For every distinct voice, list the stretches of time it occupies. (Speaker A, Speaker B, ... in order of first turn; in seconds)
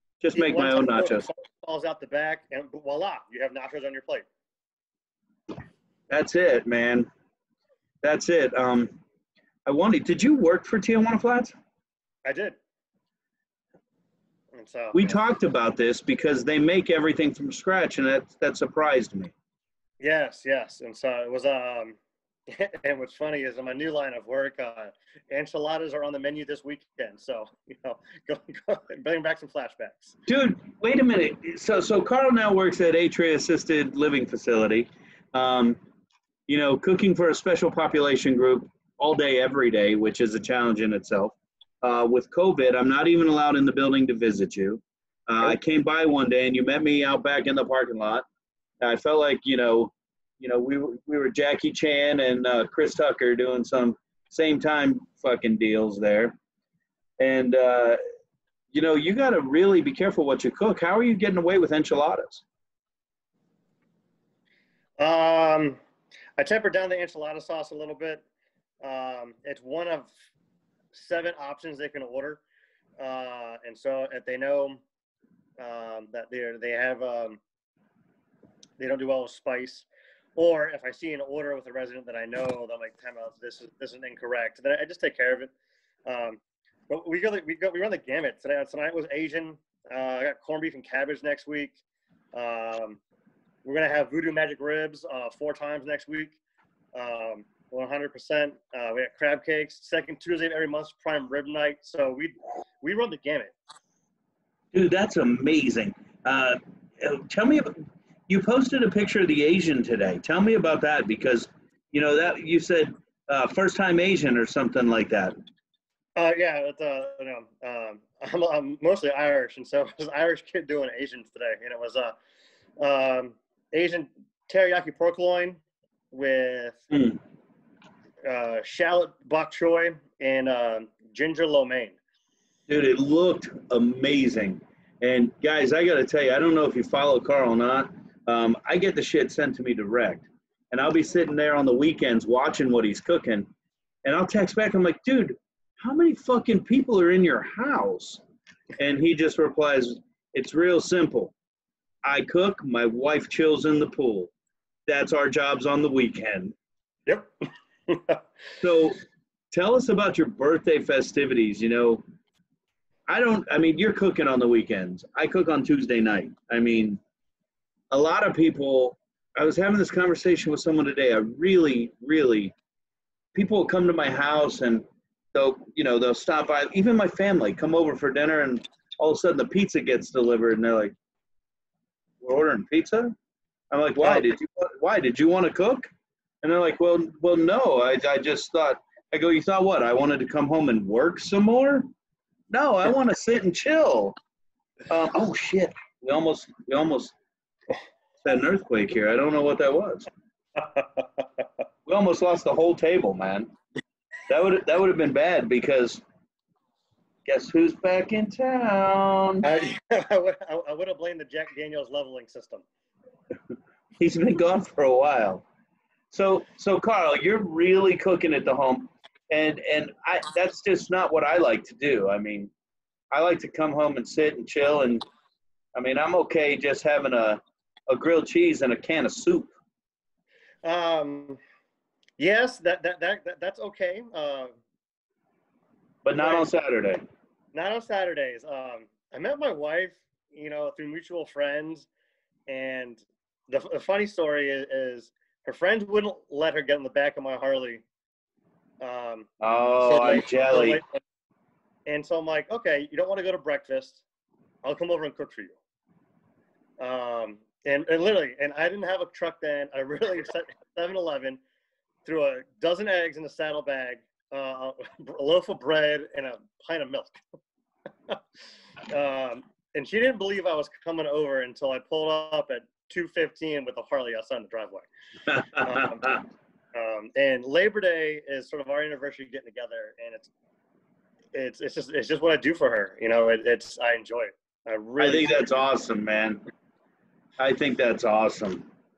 Speaker A: 0.2-1.3, 6.1-7.1, 8.0-9.0, 9.7-11.6, 14.9-19.3, 30.3-35.8, 36.5-48.3, 48.8-56.4, 57.2-58.0, 58.7-62.4, 104.7-107.8, 108.3-115.3, 126.9-127.2, 132.7-143.5, 144.0-148.2, 148.8-151.3, 152.0-154.3, 154.9-156.5, 158.6-159.0, 159.5-162.0, 163.1-167.0, 167.9-172.5, 173.3-180.9, 182.2-183.2, 183.7-185.9, 186.4-191.9, 192.5-194.2, 194.9-197.1, 198.2-200.1, 201.9-203.5, 204.3-206.0, 207.2-209.5, 214.0-215.4, 216.1-222.5, 223.1-225.1, 225.8-229.5, 236.0-237.0, 249.4-250.8, 275.7-276.1, 285.0-286.4, 287.4-288.7
Speaker B: 0.3-4.3, 12.2-12.6, 14.5-15.0, 20.0-22.0, 22.5-30.1, 65.0-65.8, 66.4-68.2, 68.8-70.1, 70.9-72.4, 73.0-74.8, 75.6-77.4, 78.8-85.5, 86.1-91.8, 92.3-93.0, 93.6-96.4, 96.9-103.5, 116.2-122.2, 122.8-125.6, 126.1-126.8, 128.2-132.0, 157.9-158.2, 200.6-201.0, 209.4-212.7, 230.6-231.4, 232.2-234.5, 236.2-236.5, 237.5-241.9, 242.5-247.8, 248.8-249.3, 249.8-251.0, 251.9-254.0, 254.6-255.6, 256.8-261.4, 262.1-267.2, 268.9-274.9, 275.6-276.1, 276.7-280.3, 281.3-285.4